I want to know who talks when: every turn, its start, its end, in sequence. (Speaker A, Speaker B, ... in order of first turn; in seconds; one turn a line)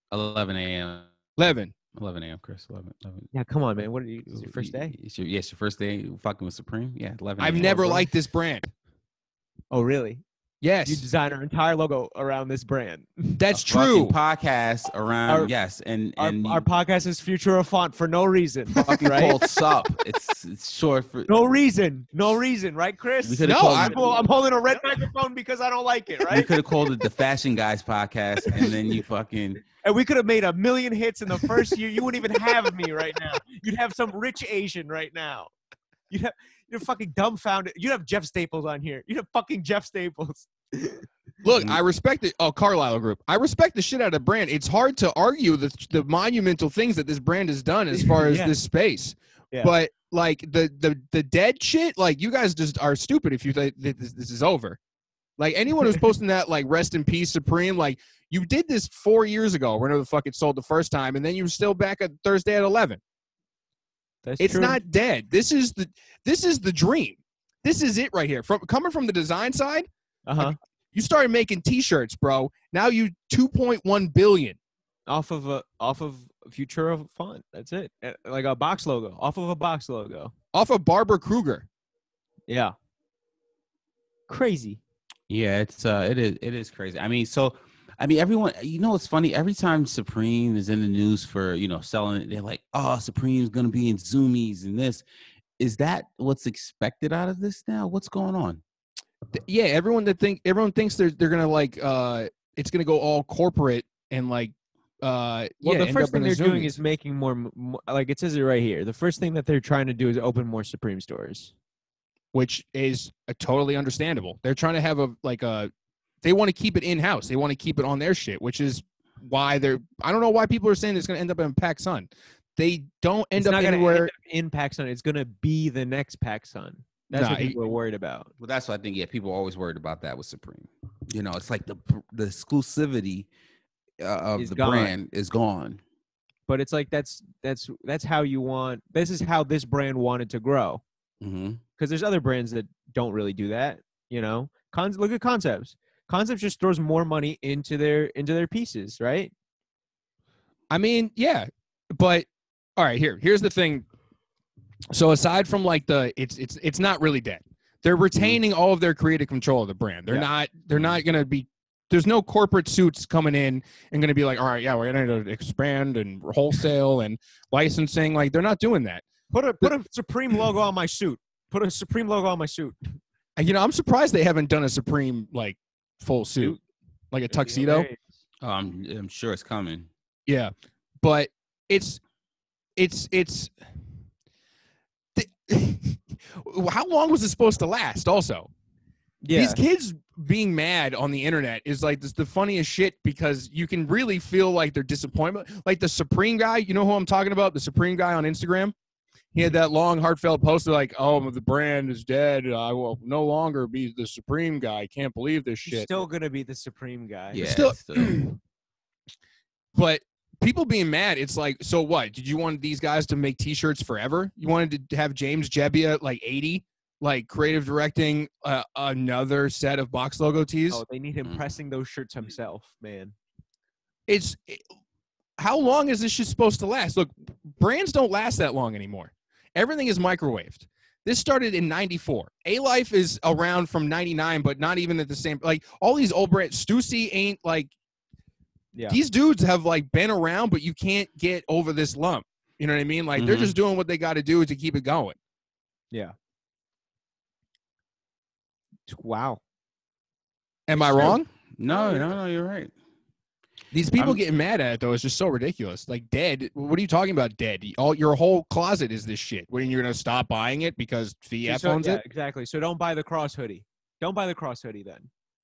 Speaker A: 0.1-1.1
Speaker B: 1.4-1.7
Speaker A: 1.9-3.3
Speaker C: 3.3-4.9
Speaker A: 4.3-8.0
Speaker B: 7.4-8.7
Speaker C: 7.6-7.9
Speaker C: 9.7-10.2
Speaker B: 10.6-11.1
Speaker C: 10.8-13.4
Speaker B: 13.4-14.1
Speaker A: 13.5-16.6
Speaker C: 16.2-19.4
Speaker A: 18.8-21.3
Speaker C: 21.3-26.5
Speaker A: 23.2-24.2
Speaker B: 23.4-24.0
Speaker A: 26.3-29.6
Speaker C: 29.8-35.5
Speaker C: 36.1-41.1
Speaker B: 41.4-54.8
Speaker A: 41.5-41.8
Speaker C: 47.9-48.5
Speaker B: 55.4-63.0
Speaker C: 64.2-64.8
Speaker B: 64.4-74.6
Speaker C: 70.3-70.5
Speaker C: 75.1-80.3
Speaker B: 80.5-81.7
Speaker C: 82.5-82.7
Speaker C: 84.3-84.8
Speaker A: 85.3-95.0
Speaker A: 95.6-98.6
Speaker B: 99.3-106.7
Speaker C: 105.6-111.5
Speaker B: 112.3-115.7
Speaker B: 116.2-124.1
Speaker C: 123.4-128.3
Speaker B: 127.1-127.5
Speaker A: 128.4-133.3
Speaker A: 134.0-135.8
Speaker C: 134.4-134.9
Speaker C: 136.5-140.8
Speaker A: 141.2-141.6
Speaker C: 141.8-149.3
Speaker B: 150.7-153.8
Speaker B: 154.9-169.1
Speaker C: 169.3-173.0
Speaker B: 173.4-176.6
Speaker B: 177.1-177.9
Speaker C: 177.3-178.2
Speaker A: 178.4-179.9
Speaker B: 180.3-182.0
Speaker B: 182.8-183.5
Speaker B: 185.1-188.5
Speaker C: 189.2-189.6
Speaker B: 189.3-198.7
Speaker B: 199.3-205.9
Speaker C: 205.7-207.4
Speaker A: 207.3-208.2
Speaker B: 207.4-208.4
Speaker B: 209.7-220.8
Speaker C: 220.7-223.1
Speaker B: 224.1-224.6
Speaker B: 225.4-237.7
Speaker B: 238.9-245.2
Speaker A: 243.2-243.5
Speaker C: 248.9-249.4
Speaker B: 250.7-251.3
Speaker A: 250.8-252.7
Speaker C: 251.7-252.1
Speaker B: 253.7-262.0
Speaker C: 261.4-265.1